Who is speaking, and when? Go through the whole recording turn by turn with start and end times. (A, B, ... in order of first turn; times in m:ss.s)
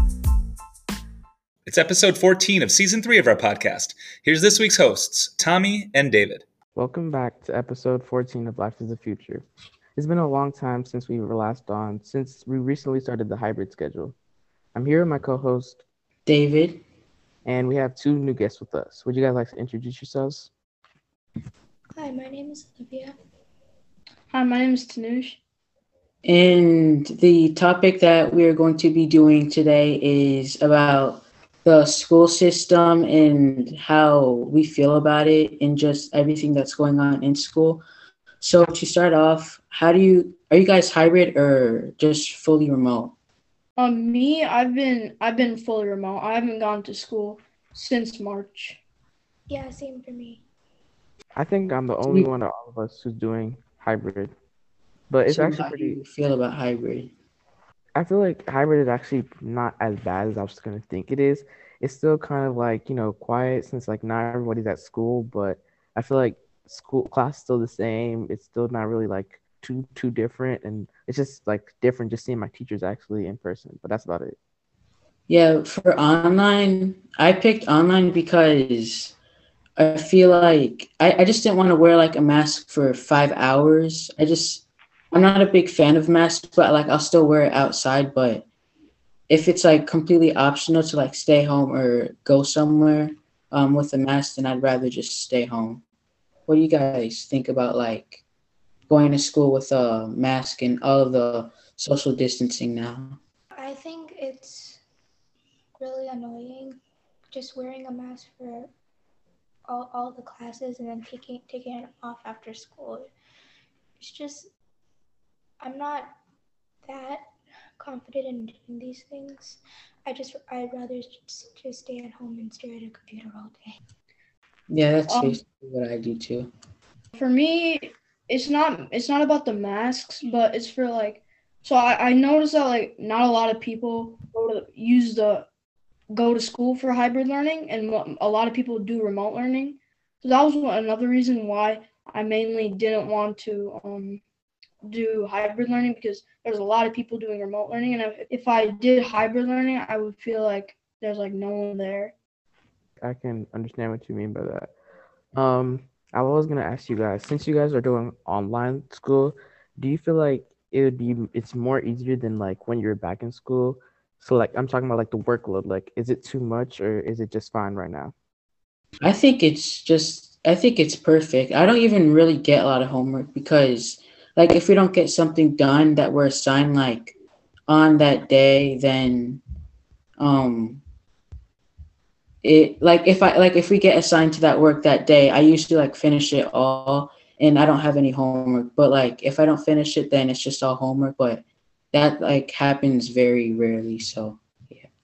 0:01.7-0:06.4 A
0:06.8-0:14.2 B
0:14.7-0:15.8 B
0:16.3-0:16.8 C
0:17.4-0:20.5 B
0:22.0-0:23.2 D
0:24.3-0:25.4 E
0:26.2-0:37.8 C
0:38.4-0:43.1 C
0:43.8-0:48.8 E
0:49.5-0:50.4 D
0:51.4-0:54.3 B
0:55.1-0:56.0 B
0:55.3-0:57.1 C
0:58.0-1:14.4 B
1:15.3-1:19.2 C
1:19.8-1:28.4 C
1:29.3-1:35.8 C
1:36.5-1:38.2 C
1:38.9-1:43.2 C
1:43.6-1:44.8 D
1:45.8-1:46.8 D
1:47.3-1:48.7 D
1:49.7-1:53.1 D
1:54.0-1:54.5 D
1:55.6-1:56.1 D
1:56.8-2:03.8 D
2:04.7-2:06.5 C
2:05.1-2:05.4 E
2:07.1-2:15.5 E
2:16.1-2:24.2 E
2:24.8-2:32.1 E
2:33.0-2:34.7 B
2:35.3-2:48.1 B
2:49.0-2:57.1 C
2:57.7-2:59.4 C
3:00.2-3:00.8 C
3:02.4-3:11.4 C
3:11.9-3:14.9 C